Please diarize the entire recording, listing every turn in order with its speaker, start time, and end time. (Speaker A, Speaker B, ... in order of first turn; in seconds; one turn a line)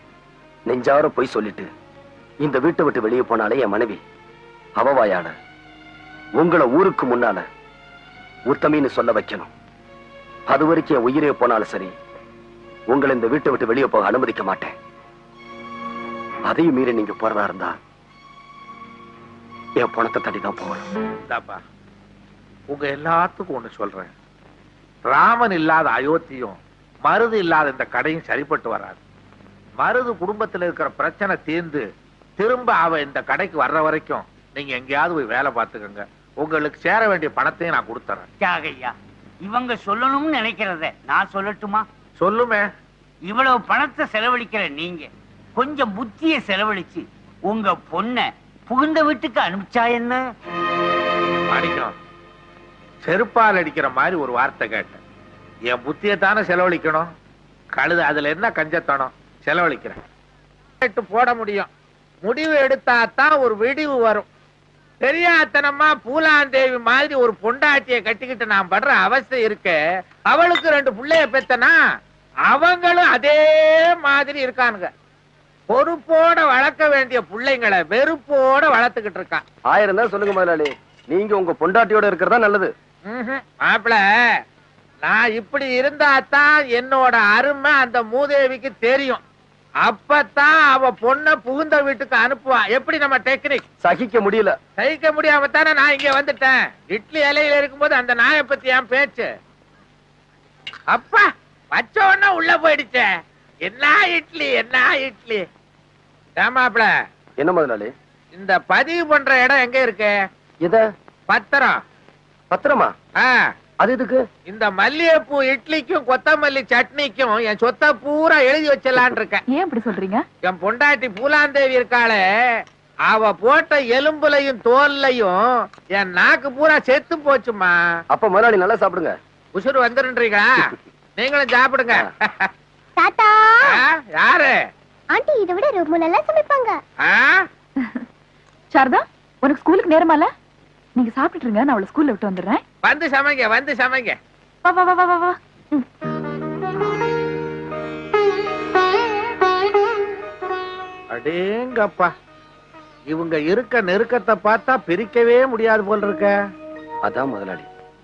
Speaker A: 0.7-1.7
Speaker A: 2.4-4.0
Speaker A: 4.8-5.3
Speaker A: 6.4-7.5
Speaker A: 8.5-9.5
Speaker A: 10.5-11.9
Speaker A: 12.9-14.8
Speaker A: 16.5-17.8
Speaker A: 19.8-20.9
Speaker B: 21.3-21.6
Speaker B: 22.7-24.1
Speaker B: 25.1-29.0
Speaker B: 29.8-31.8
Speaker B: 32.4-38.3
Speaker C: 38.4-41.9
Speaker B: 42.2-42.6
Speaker C: 43.2-50.2
Speaker B: 51.5-51.9
Speaker B: 53.0-55.0
Speaker B: 55.7-57.1
Speaker B: 57.8-60.0
Speaker B: 60.8-61.7
Speaker B: 62.2-64.3
Speaker B: 65.0-69.8
Speaker B: 70.3-71.8
Speaker B: 72.5-74.9
Speaker B: 75.7-79.4
Speaker A: 79.7-82.7
Speaker B: 83.1-84.0
Speaker B: 85.0-89.2
Speaker B: 89.9-93.6
Speaker A: 93.8-94.6
Speaker B: 94.8-99.3
Speaker B: 100.9-103.1
Speaker B: 103.7-105.4
Speaker B: 106.4-106.9
Speaker A: 107.4-107.9
Speaker B: 108.3-110.1
Speaker B: 111.3-111.8
Speaker A: 112.5-112.9
Speaker A: 113.8-114.2
Speaker B: 114.5-119.4
Speaker D: 119.5-120.2
Speaker B: 120.4-122.2
Speaker B: 123.1-125.4
Speaker B: 126.0-127.8
Speaker A: 128.1-129.2
Speaker B: 129.6-132.5
Speaker E: 133.0-133.8
Speaker B: 133.7-134.6
Speaker E: 135.1-136.8
Speaker B: 137.1-137.4
Speaker D: 138.7-140.3
Speaker D: 141.0-142.6
Speaker B: 142.8-144.2
Speaker D: 144.7-145.8
Speaker B: 151.1-152.1
Speaker B: 153.1-156.3
Speaker A: 157.1-157.7